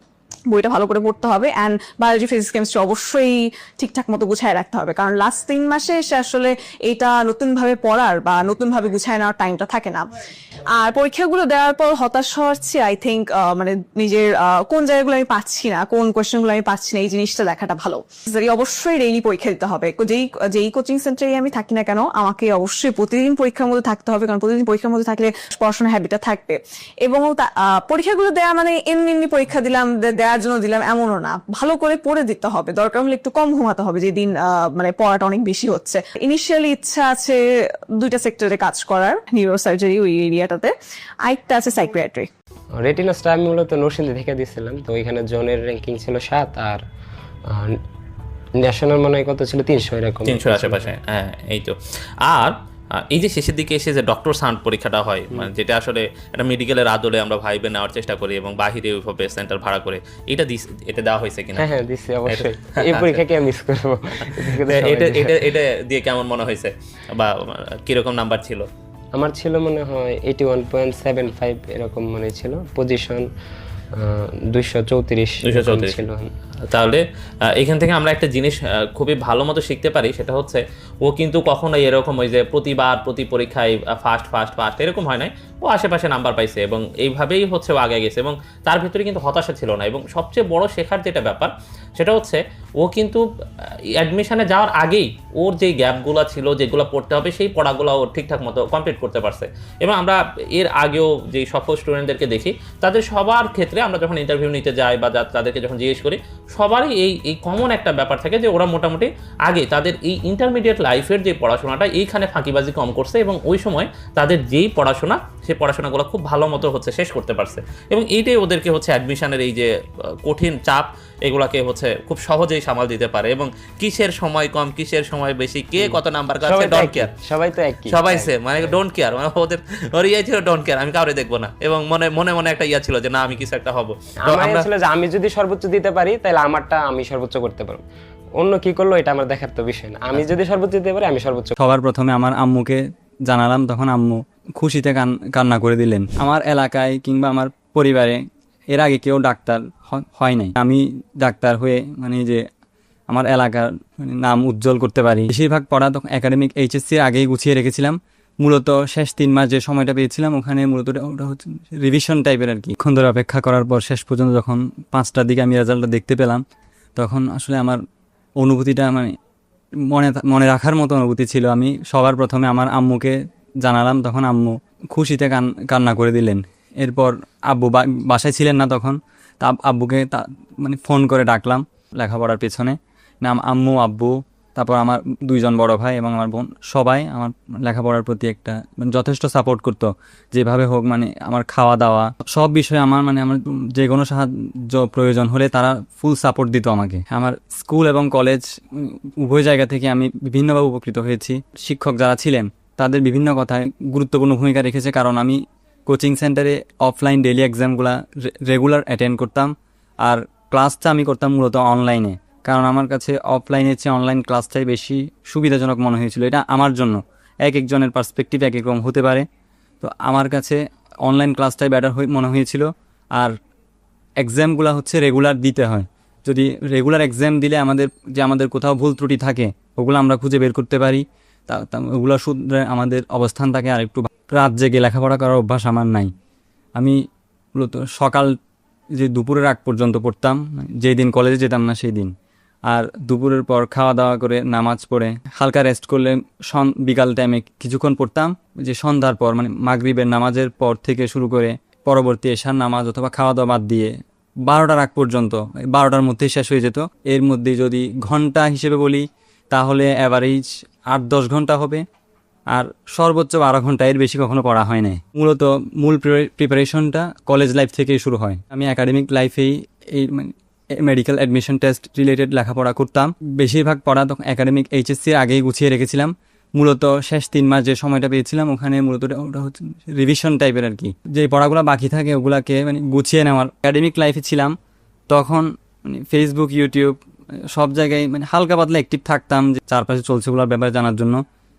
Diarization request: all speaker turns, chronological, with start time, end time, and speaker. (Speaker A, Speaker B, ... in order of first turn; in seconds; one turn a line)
Speaker A: 0.5-10.1
Speaker A: 10.7-37.4
Speaker A: 38.0-40.7
Speaker A: 41.2-42.3
Speaker B: 42.8-46.8
Speaker B: 47.5-47.8
Speaker B: 48.6-51.0
Speaker C: 50.2-61.7
Speaker B: 61.6-65.5
Speaker C: 62.3-63.2
Speaker C: 64.3-68.7
Speaker B: 69.1-73.3
Speaker B: 73.9-76.3
Speaker C: 75.4-76.0
Speaker C: 76.7-77.0
Speaker C: 77.5-93.2
Speaker C: 94.0-119.7
Speaker C: 120.2-127.1
Speaker B: 125.8-128.7
Speaker C: 127.9-134.7
Speaker B: 134.2-137.8
Speaker B: 138.4-141.6
Speaker D: 141.6-148.2
Speaker D: 148.7-152.4
Speaker D: 153.1-166.4
Speaker D: 167.0-167.8
Speaker D: 168.4-169.1
Speaker D: 169.9-209.5
Speaker D: 210.0-219.2
Speaker D: 219.8-223.3
Speaker D: 224.2-236.1
Speaker D: 237.6-238.3
Speaker D: 239.0-242.1
Speaker D: 242.7-253.9
Speaker D: 254.5-261.8
Speaker D: 262.5-284.5
Speaker D: 285.1-287.0
Speaker D: 287.5-291.2